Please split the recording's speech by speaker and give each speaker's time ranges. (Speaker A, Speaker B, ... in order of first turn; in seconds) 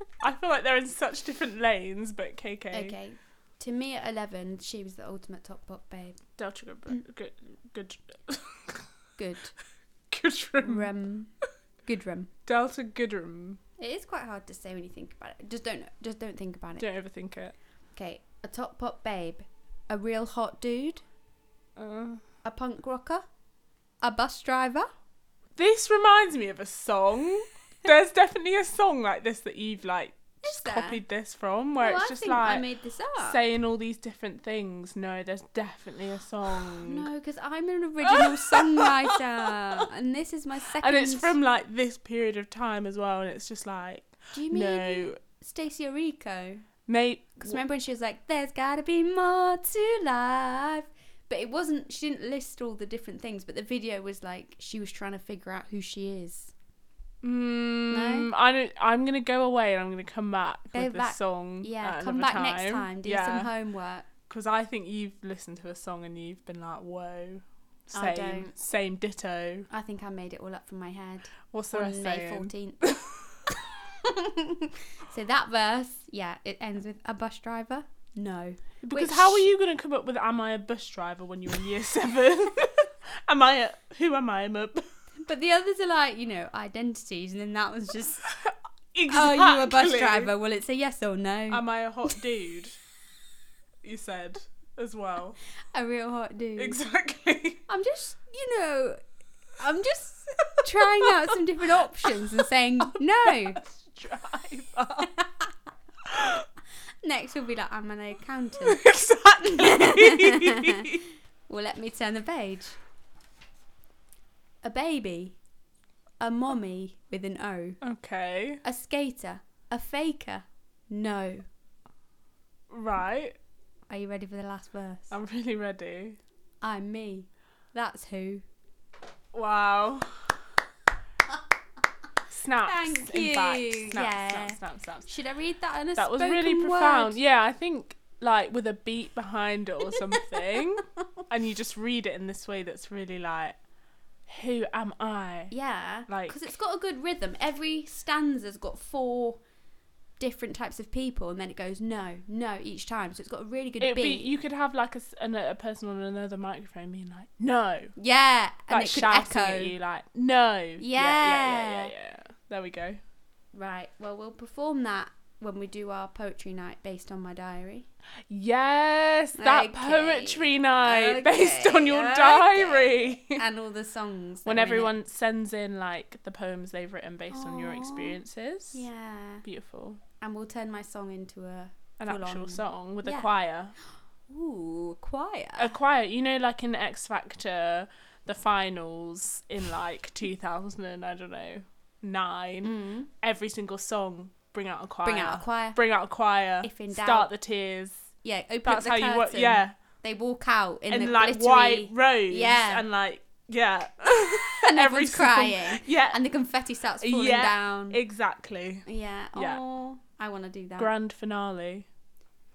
Speaker A: 0.2-3.0, 6.4-8.9, 10.1-10.9, 12.4-13.6, 16.8-17.5, 21.8-22.2, 25.6-32.6, 33.2-37.1, 38.0-39.8, 40.8-45.2, 46.9-47.6, 57.2-63.5, 64.3-69.7, 71.5-73.3, 78.8-84.8, 88.3-90.3, 91.5-92.8, 93.8-95.4, 96.6-97.6, 103.2-105.1, 106.0-106.5, 108.6-111.0, 117.8-118.6, 122.7-123.3, 125.1-126.2, 129.3-130.3, 132.3-135.1, 136.0-143.6, 144.3-145.5, 146.1-146.4, 153.8-157.9, 158.7-163.0, 168.3-173.4, 174.4-178.8, 179.4-180.0, 182.0-183.7, 185.6-198.1, 198.6-199.7, 200.9-206.2, 207.0-209.6, 210.8-211.9
Speaker B: 2.7-6.2, 9.2-9.5, 10.6-11.3, 11.8-12.3, 13.8-16.9, 17.9-21.0, 22.4-23.2, 24.0-24.9, 30.4-31.0, 31.8-33.4, 36.8-41.4, 44.3-46.6, 47.4-56.5, 57.9-58.3, 60.7-64.1, 67.9-68.5, 69.7-72.8, 74.0-79.5, 85.2-88.3, 89.1-92.2, 95.7-96.8, 97.7-99.0, 99.6-103.6, 105.2-105.5, 107.0-108.8, 109.4-111.0, 111.5-112.8, 114.6-115.4, 116.2-117.8, 118.6-121.4, 123.9-125.1, 126.6-128.4, 132.6-137.2, 145.5-149.4, 150.2-154.3, 157.9-159.7, 160.8-161.9, 163.5-167.9, 169.4-174.9, 177.3-178.2, 178.7-179.4, 180.2-183.3, 184.3-185.7, 192.6-193.1, 195.0-195.8, 196.6-197.3, 198.2-202.8, 204.6-208.0, 208.8-210.9